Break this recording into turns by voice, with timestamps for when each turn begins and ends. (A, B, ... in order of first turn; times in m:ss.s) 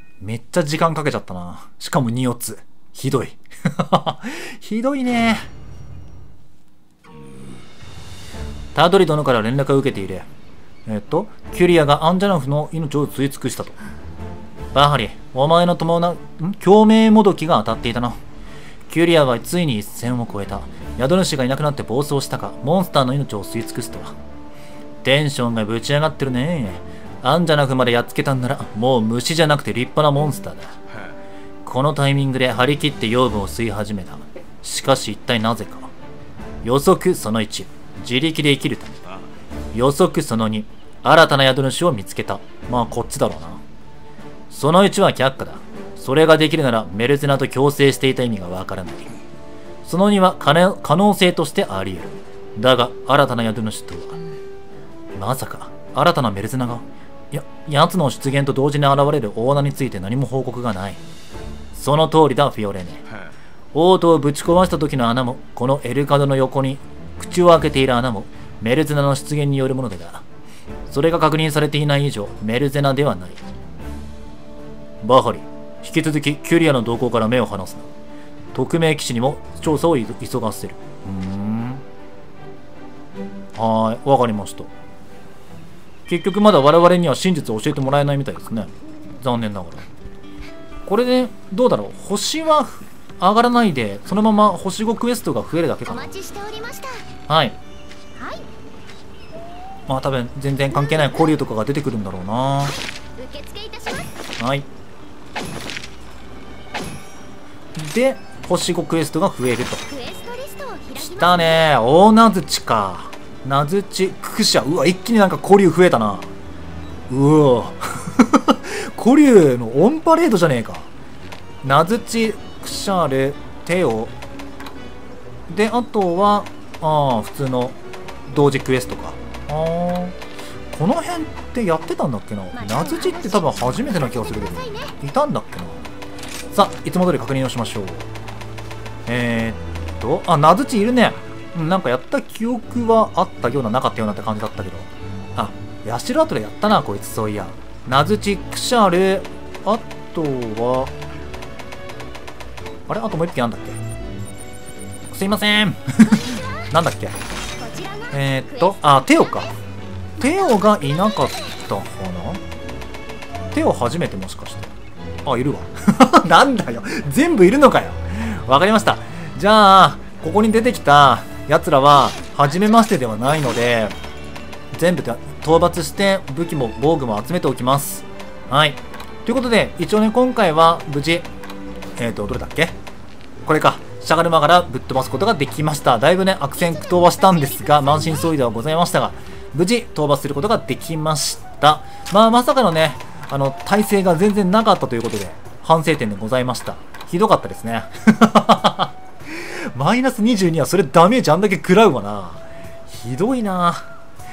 0:00.2-0:05.5 A
0:08.8-0:10.3 A
0:10.9-0:13.8 A
0:14.7-0:18.2 A
0:18.9-0:24.2 A
0:25.0-0:30.7 A
0:31.6-0:35.9 A
0:36.6-0:39.0 A
0:39.7-0:43.6 A
0:44.5-0:49.1 A
0:49.8-0:54.2 A
0:55.2-1:01.0 A
1:01.7-1:03.0 A
1:03.7-1:10.2 A
1:10.9-1:13.4 A
1:15.0-1:17.9 A
1:18.5-1:21.8 A
1:23.6-1:24.7 A
1:26.1-1:29.9 A
1:30.9-1:36.2 A
1:35.9-1:37.0 B
1:37.3-1:37.6 A
1:38.2-1:38.4 B
1:39.9-1:42.8 A
1:43.2-1:44.1 B
1:44.4-1:44.7 A
1:47.8-1:49.9 A
1:49.9-1:51.7 B
1:51.0-1:56.3 A
1:57.1-2:00.9 A
2:01.6-2:04.1 A
2:05.5-2:10.2 A
2:10.7-2:15.9 A
2:12.6-2:14.9 B
2:16.5-2:18.1 A
2:19.1-2:30.9 A
2:32.9-2:33.8 A
2:35.1-2:37.2 A
2:37.6-2:39.0 B
2:38.1-2:39.6 A
2:40.2-2:42.4 A
2:43.5-2:44.7 A
2:45.2-2:54.0 A
2:54.7-3:01.3 A
3:02.0-3:02.8 A
3:03.5-3:23.9 A
3:06.6-3:08.3 B